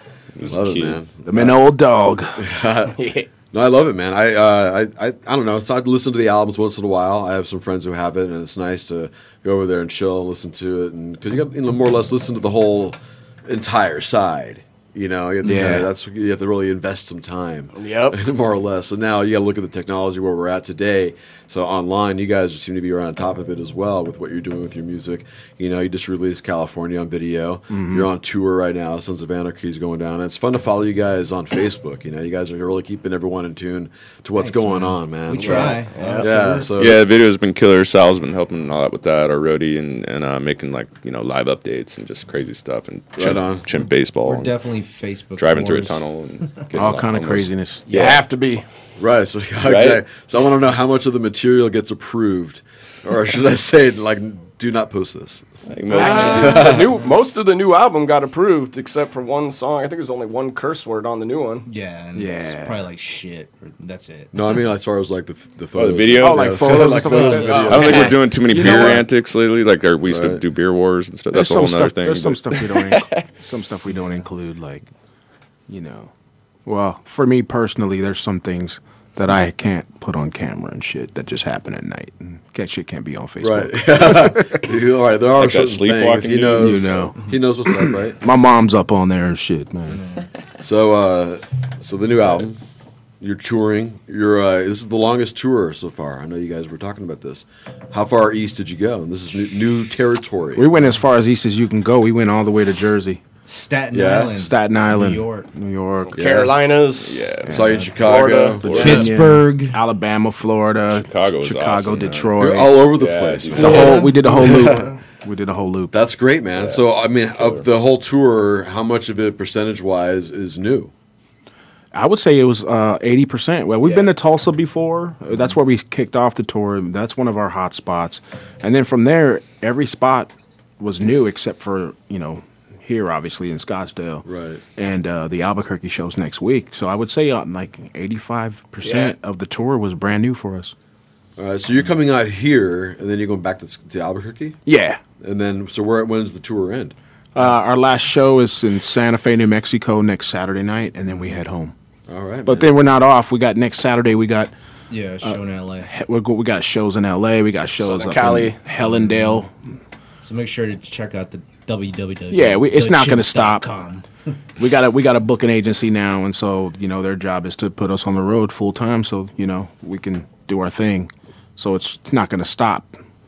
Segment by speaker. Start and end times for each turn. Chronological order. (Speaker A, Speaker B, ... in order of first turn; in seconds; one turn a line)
Speaker A: 0.3-1.0
Speaker B: 0.4-1.6
Speaker C: 1.2-2.4
Speaker B: 2.4-3.0
Speaker D: 2.9-3.3
Speaker B: 3.5-37.0
Speaker C: 15.4-15.9
Speaker D: 17.7-18.2
Speaker C: 27.7-28.1
Speaker E: 34.4-36.7
Speaker D: 35.4-36.4
Speaker A: 36.7-44.5
Speaker B: 43.2-43.7
Speaker E: 44.2-46.6
Speaker A: 45.4-48.2
Speaker C: 46.7-47.8
Speaker E: 47.9-48.2
Speaker D: 47.9-48.6
Speaker B: 49.0-56.9
Speaker A: 49.6-50.0
Speaker A: 55.7-56.6
Speaker C: 56.0-56.8
Speaker D: 56.0-61.7
Speaker E: 61.6-64.3
Speaker C: 62.1-62.8
Speaker B: 64.3-68.1
Speaker A: 65.7-72.8
Speaker C: 66.2-69.0
Speaker E: 67.0-69.0
Speaker D: 67.2-68.1
Speaker B: 70.0-70.4
Speaker C: 71.3-74.9
Speaker C: 75.7-76.1
Speaker C: 76.7-84.5
Speaker B: 83.4-88.2
Speaker A: 85.3-87.1
Speaker C: 86.6-87.2
Speaker C: 88.1-90.0
Speaker E: 89.9-90.3
Speaker B: 90.6-92.6
Speaker B: 93.2-100.6
Speaker C: 100.5-103.2
Speaker E: 103.4-105.5
Speaker B: 103.9-104.3
Speaker C: 104.3-106.2
Speaker D: 106.1-107.3
Speaker A: 106.1-109.1
Speaker C: 107.5-108.0
Speaker B: 107.5-109.0
Speaker D: 108.0-109.1
Speaker C: 108.6-112.9
Speaker E: 108.6-109.8
Speaker A: 110.9-114.1
Speaker B: 112.4-114.8
Speaker E: 113.5-115.0
Speaker C: 113.5-115.9
Speaker B: 115.9-120.9
Speaker A: 116.5-117.7
Speaker C: 121.9-140.7
Speaker B: 134.2-134.6
Speaker D: 138.8-139.1
Speaker B: 141.4-144.6
Speaker C: 144.7-145.0
Speaker B: 145.2-146.9
Speaker C: 147.3-151.7
Speaker E: 151.1-151.4
Speaker B: 152.1-152.7
Speaker C: 152.4-154.5
Speaker E: 154.9-155.9
Speaker C: 155.2-159.7
Speaker D: 157.8-158.6
Speaker E: 158.8-159.4
Speaker E: 160.2-164.1
Speaker C: 162.3-163.6
Speaker C: 164.6-173.0